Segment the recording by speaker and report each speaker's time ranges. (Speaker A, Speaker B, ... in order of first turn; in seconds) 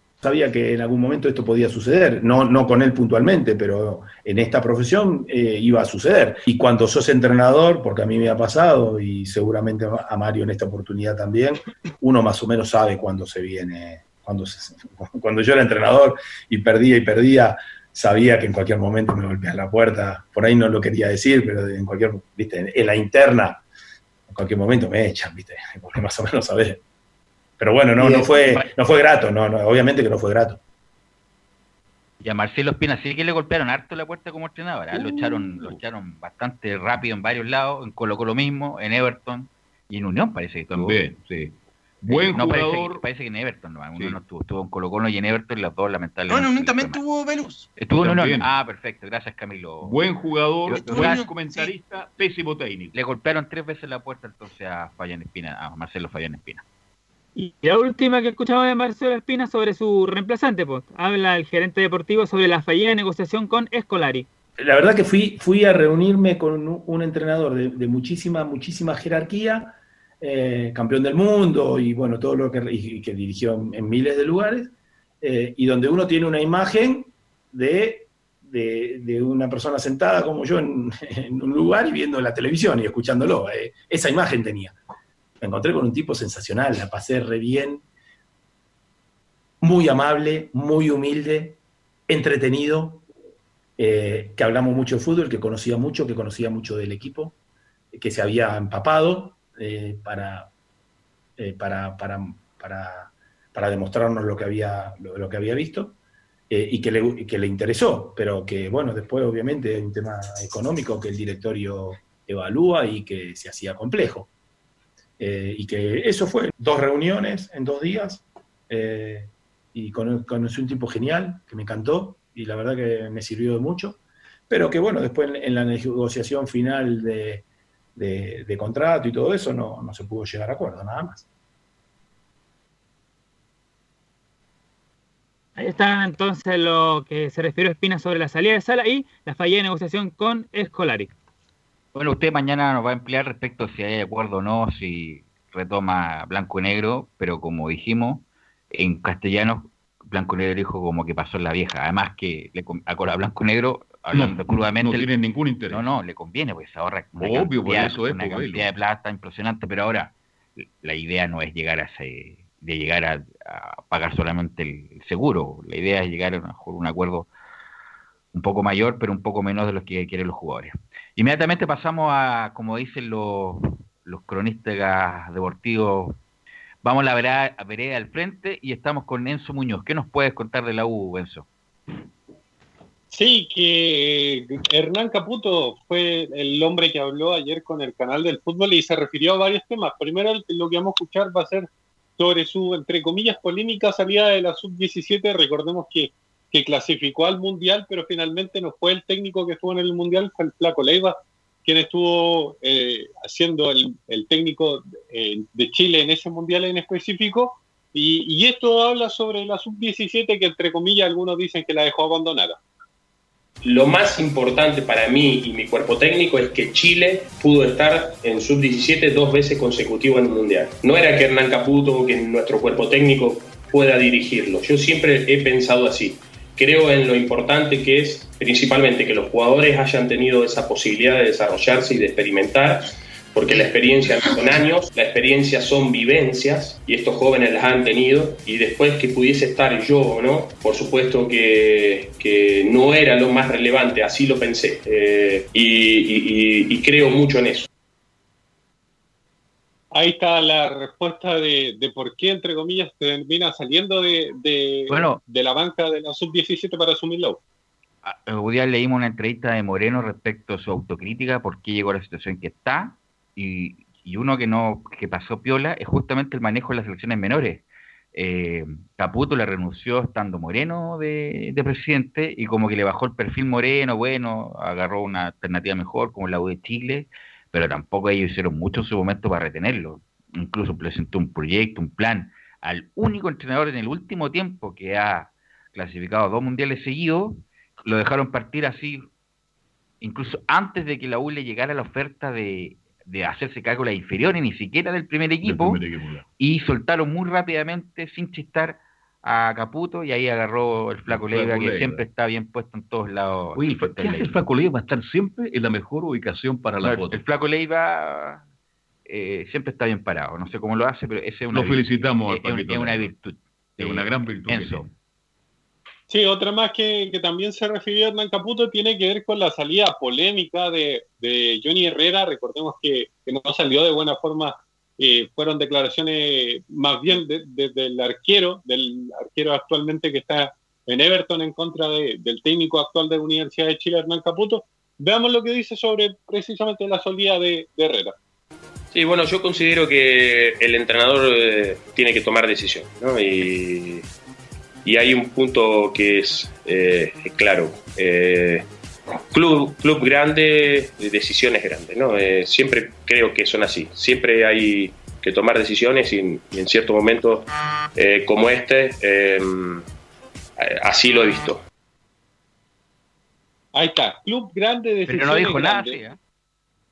Speaker A: 0.2-23.6, 24.3-26.8, 27.6-30.6, 64.6-84.8, 85.4-87.8, 89.6-93.0, 93.8-97.4, 97.9-100.5, 101.4-106.0, 106.5-114.3, 115.2-127.5, 128.0-131.3
Speaker B: 32.2-41.0, 42.1-47.0, 47.8-50.0, 50.7-51.3, 52.9-56.6, 141.9-155.1, 155.7-167.3, 168.3-176.2, 176.8-181.5, 254.9-255.2, 258.0-289.1, 290.0-295.8, 296.4-304.4, 306.8-308.4, 309.1-314.9, 365.1-366.2
Speaker C: 34.9-35.8, 40.7-43.0, 47.9-48.5, 49.8-53.0, 154.1-155.8, 157.2-158.7, 295.4-296.2, 301.1-302.0, 303.6-307.2, 311.5-313.1, 313.8-314.9
Speaker D: 46.3-47.7, 50.8-51.8
Speaker E: 57.4-64.3, 135.6-141.1
Speaker F: 183.1-212.6, 249.9-257.4, 316.1-338.2, 363.7-366.0
Speaker G: 213.7-247.7, 338.9-344.0, 344.9-348.7, 349.3-359.9, 360.6-361.6